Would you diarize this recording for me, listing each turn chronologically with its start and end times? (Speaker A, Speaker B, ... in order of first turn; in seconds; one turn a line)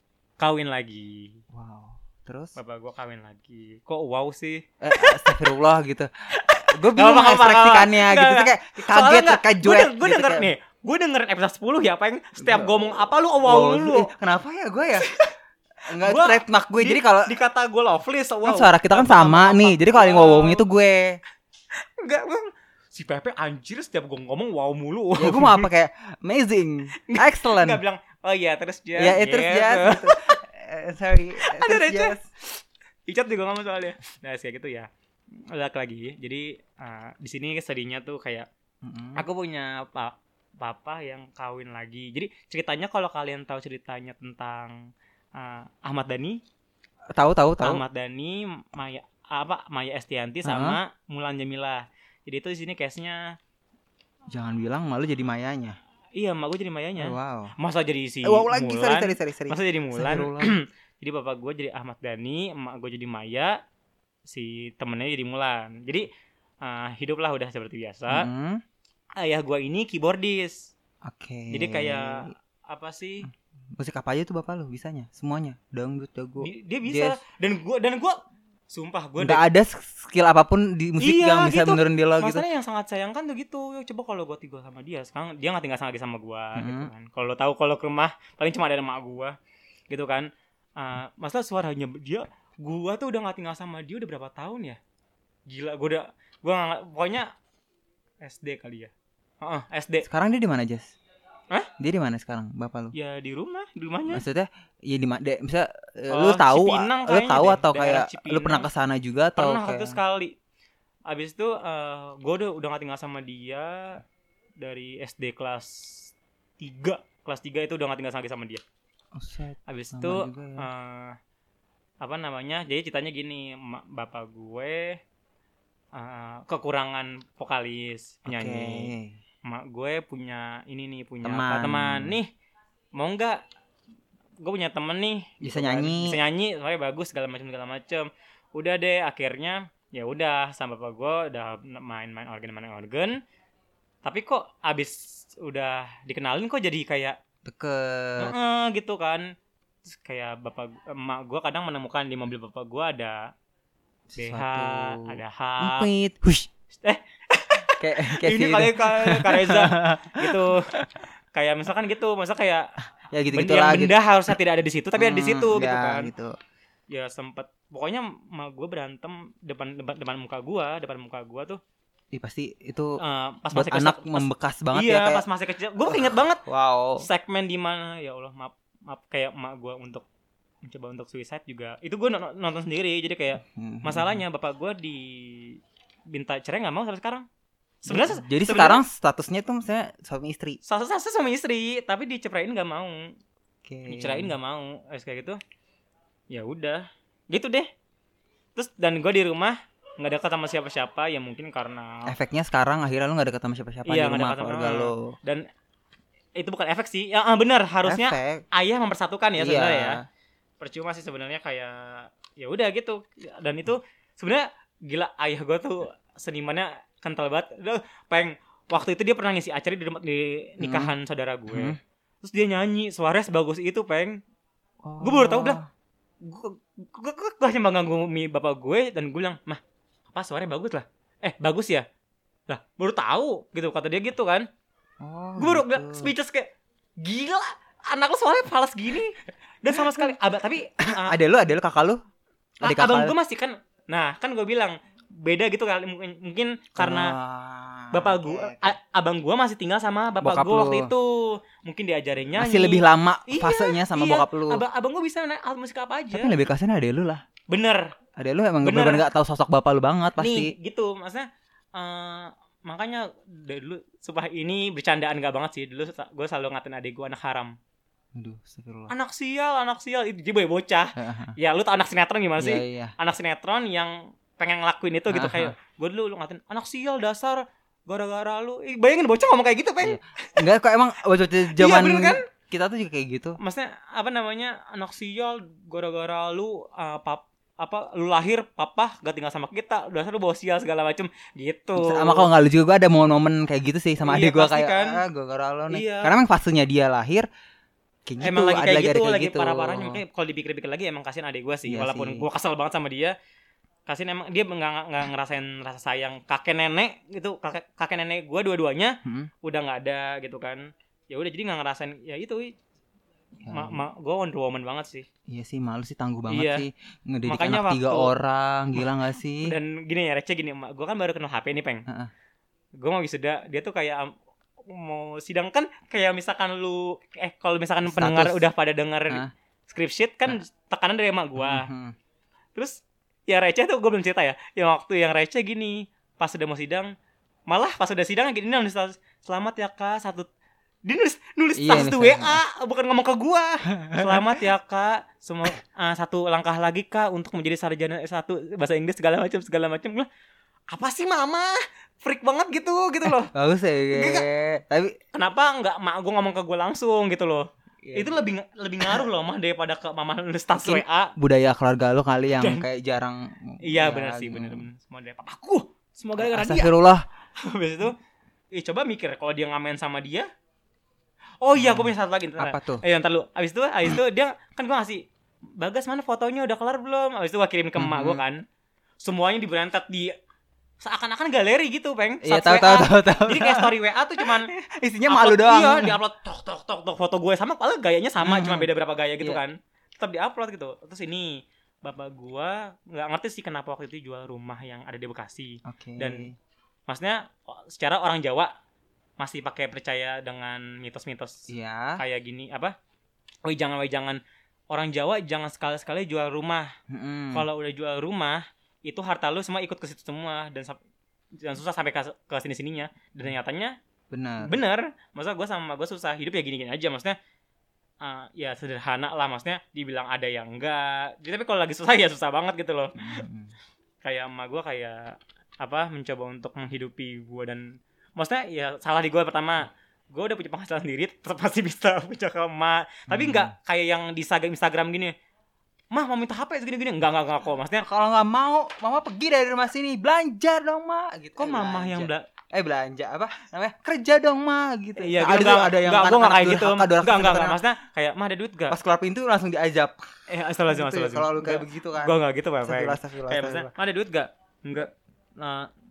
Speaker A: 0.4-1.4
Speaker B: 1.5-2.5
Speaker A: 2.6-5.5
Speaker B: 4.8-10.5
Speaker A: 6.3-14.1
Speaker B: 12.4-15.1
Speaker A: 15.0-15.3
Speaker B: 15.8-17.3
Speaker A: 16.0-20.6
Speaker B: 18.4-21.2
Speaker A: 22.0-25.7
Speaker B: 25.2-27.8
Speaker A: 26.9-30.4
Speaker B: 29.0-32.3
Speaker A: 31.4-32.2
Speaker A: 33.1-34.9
Speaker A: 35.5-38.5
Speaker B: 38.8-39.2
Speaker A: 39.2-46.4
Speaker B: 47.1-47.8
Speaker A: 47.6-53.4
Speaker B: 50.5-50.8
Speaker B: 54.3-55.8
Speaker A: 56.1-63.6
Speaker B: 57.0-57.5
Speaker B: 58.2-60.5
Speaker A: 64.3-66.1
Speaker A: 66.6-68.3
Speaker B: 68.1-68.6
Speaker A: 69.2-70.7
Speaker B: 71.0-72.3
Speaker A: 71.5-73.3
Speaker B: 73.8-77.2
Speaker A: 76.4-78.2
Speaker A: 78.7-79.4
Speaker B: 79.2-82.5
Speaker A: 81.0-89.4
Speaker B: 86.6-86.9
Speaker A: 89.9-94.8
Speaker A: 95.5-97.3
Speaker A: 98.2-100.1
Speaker B: 100.0-100.9
Speaker B: 101.8-102.9
Speaker A: 102.9-104.2
Speaker B: 104.1-110.0
Speaker A: 106.1-108.7
Speaker A: 109.4-110.4
Speaker A: 111.1-114.0
Speaker A: 114.6-118.6
Speaker B: 119.2-120.7
Speaker A: 119.7-121.2
Speaker A: 122.0-125.0
Speaker A: 125.9-128.9
Speaker B: 128.3-129.2
Speaker A: 129.4-132.3
Speaker B: 131.2-132.2
Speaker A: 132.9-133.4
Speaker A: 134.4-143.2
Speaker B: 135.4-136.2
Speaker A: 144.0-147.2
Speaker B: 147.4-148.3
Speaker A: 148.2-149.3
Speaker A: 149.9-153.3
Speaker B: 154.2-156.5
Speaker A: 154.2-155.9
Speaker A: 156.8-162.7
Speaker B: 157.7-161.0
Speaker B: 163.1-164.0
Speaker A: 163.3-166.1
Speaker B: 165.0-166.4
Speaker A: 166.9-171.6
Speaker B: 172.1-173.0
Speaker A: 173.0-176.4
Speaker B: 173.5-175.2
Speaker B: 175.8-177.1
Speaker A: 177.0-180.1
Speaker A: 180.6-185.6
Speaker B: 183.4-184.2
Speaker A: 186.1-187.3
Speaker A: 187.8-188.8
Speaker B: 187.9-190.6
Speaker A: 190.7-193.2
Speaker B: 193.7-194.3
Speaker A: 193.9-195.4
Speaker A: 196.3-197.7
Speaker A: 198.6-202.1
Speaker B: 202.1-205.2
Speaker A: 203.9-205.5
Speaker A: 206.4-210.0
Speaker B: 207.8-208.4
Speaker B: 209.4-210.0
Speaker A: 210.6-224.2
Speaker B: 220.6-220.9
Speaker B: 221.5-221.8
Speaker B: 224.8-225.7
Speaker A: 225.0-225.6
Speaker A: 226.2-229.6
Speaker A: 230.1-231.9
Speaker A: 232.5-234.5
Speaker B: 235.0-236.1
Speaker A: 235.4-236.5
Speaker A: 237.0-241.2
Speaker B: 239.7-240.1
Speaker B: 240.8-242.0
Speaker A: 242.6-247.2
Speaker B: 242.6-243.1
Speaker B: 246.8-248.7
Speaker A: 247.9-256.3
Speaker B: 250.2-250.9
Speaker B: 252.4-254.6
Speaker B: 256.1-257.2
Speaker A: 257.5-257.9
Speaker B: 258.2-260.5
Speaker A: 258.6-259.1
Speaker A: 260.2-267.6
Speaker B: 268.1-268.9
Speaker A: 268.9-280.4
Speaker B: 271.0-271.4
Speaker B: 272.4-272.9
Speaker B: 275.1-275.6
Speaker B: 279.8-283.4
Speaker A: 281.5-282.2
Speaker A: 283.4-292.3
Speaker B: 291.8-297.3
Speaker A: 294.0-295.0
Speaker A: 295.7-296.1
Speaker B: 298.1-300.0
Speaker A: 298.2-303.1
Speaker B: 301.7-302.2
Speaker A: 303.9-312.5
Speaker B: 309.1-309.3
Speaker B: 313.4-313.8
Speaker A: 313.5-315.1
Speaker B: 315.3-319.6
Speaker A: 316.3-316.7
Speaker A: 317.3-318.1
Speaker A: 319.4-321.9
Speaker A: 322.8-324.1
Speaker A: 324.6-331.7
Speaker B: 327.9-328.4
Speaker B: 331.4-331.9
Speaker A: 332.6-336.9
Speaker A: 337.5-340.3
Speaker A: 340.9-350.1
Speaker B: 341.6-342.4
Speaker B: 343.8-344.4
Speaker A: 350.7-353.3
Speaker B: 353.3-355.0
Speaker A: 353.9-354.3
Speaker A: 355.1-361.1
Speaker B: 357.8-358.2
Speaker B: 360.6-364.7
Speaker A: 362.4-362.6
Speaker A: 363.6-366.7
Speaker B: 366.2-367.1
Speaker A: 367.4-367.9
Speaker A: 368.5-370.3
Speaker A: 371.4-375.0
Speaker B: 371.6-372.8
Speaker A: 375.6-378.4
Speaker B: 377.8-378.2
Speaker A: 379.0-380.1
Speaker A: 380.8-384.5
Speaker B: 382.2-386.0
Speaker A: 385.1-396.3
Speaker B: 388.2-388.7
Speaker B: 395.6-396.4
Speaker A: 396.9-398.5
Speaker A: 399.2-402.7
Speaker B: 401.5-402.0
Speaker A: 403.4-404.2
Speaker A: 404.7-406.7
Speaker B: 406.9-407.5
Speaker A: 407.3-410.8
Speaker A: 411.4-413.8
Speaker B: 414.1-414.6
Speaker A: 414.4-417.2
Speaker A: 418.0-423.2
Speaker B: 423.0-423.5
Speaker A: 424.0-435.1
Speaker B: 433.1-433.5
Speaker A: 435.9-437.9
Speaker B: 437.8-447.6
Speaker A: 441.4-442.3
Speaker A: 445.0-448.8
Speaker B: 448.7-450.1
Speaker A: 450.3-455.7
Speaker B: 450.7-453.7